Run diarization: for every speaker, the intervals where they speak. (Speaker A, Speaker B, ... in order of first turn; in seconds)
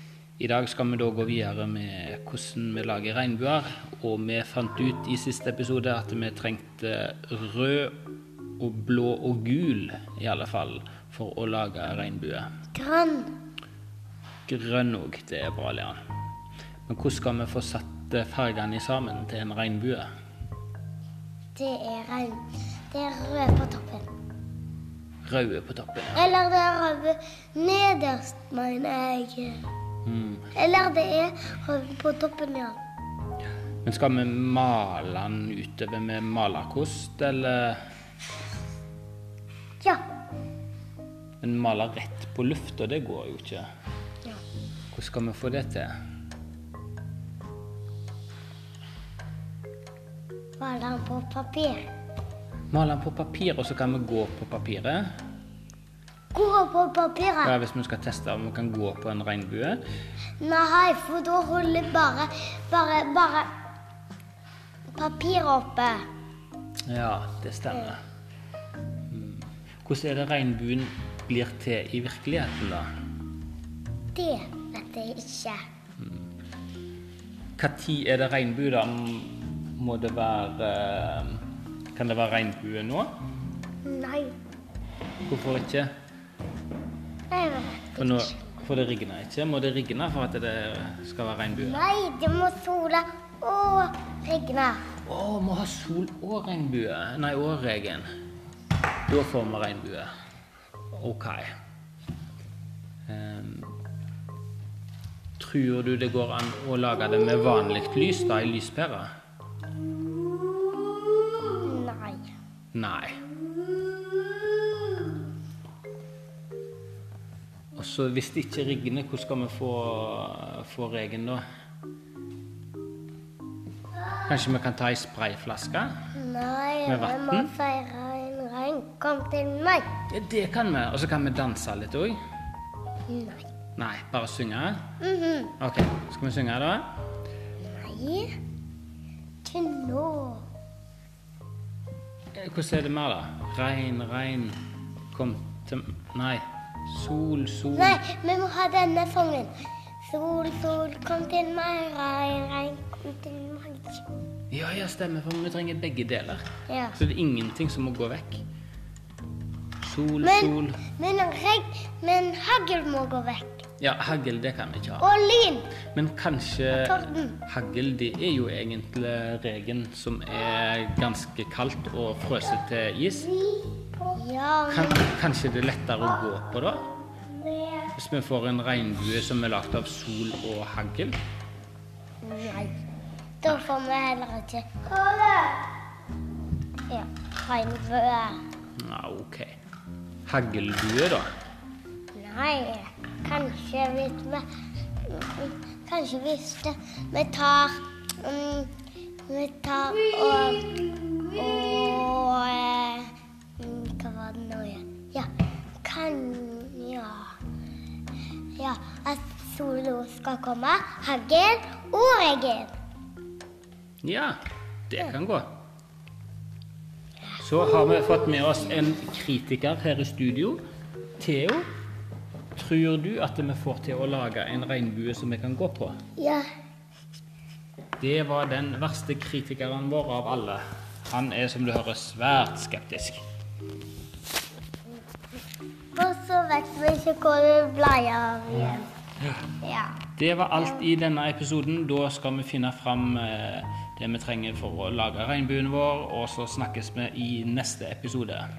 Speaker A: 0.4-8.0, 8.6-12.5, 14.5-16.0, 16.9-20.1, 25.2-26.2, 30.1-30.5, 33.8-37.8, 41.4-43.7, 44.9-45.9, 52.7-55.1, 57.4-59.8, 66.9-68.0, 69.1-72.9, 76.0-76.2, 77.6-83.1, 85.3-85.9, 88.0-91.8, 95.0-98.1, 99.1-100.1, 100.9-101.5, 103.1-103.7, 105.4-109.1, 112.7-113.2, 117.8-121.4, 124.2-125.9, 126.9-127.5, 130.1-132.2, 133.8-134.8, 135.6-136.9, 142.3-144.6, 145.1-148.0, 154.5-156.4, 156.9-158.4, 159.8-160.8, 163.8-165.1, 165.9-173.3, 174.7-176.9, 177.9-181.2, 188.8-189.6, 190.2-191.3, 214.0-215.5, 217.4-220.6, 221.2-221.7, 222.5-226.0, 228.0-233.2, 240.2-248.5
Speaker B: 12.7-13.3, 21.6-24.1, 26.1-29.6, 30.6-32.8, 50.6-51.9, 56.3-57.5, 60.4-63.5, 64.9-66.0, 74.1-75.6, 83.8-84.3, 87.3-88.4, 91.6-94.8, 111.6-112.2, 126.1-129.9, 133.1-133.5, 135.0-135.5, 137.6-138.3, 139.4-140.4, 147.8-149.5, 150.0-154.0, 156.7-156.9, 160.2-163.6, 165.0-165.7, 166.8-167.4, 174.0-175.1, 182.2-182.8, 183.4-185.6, 186.9-188.4, 192.1-194.4, 195.0-198.7, 199.3-205.3, 205.8-207.3, 208.6-212.7, 226.2-226.5, 235.9-238.9, 239.6-240.0, 240.6-240.8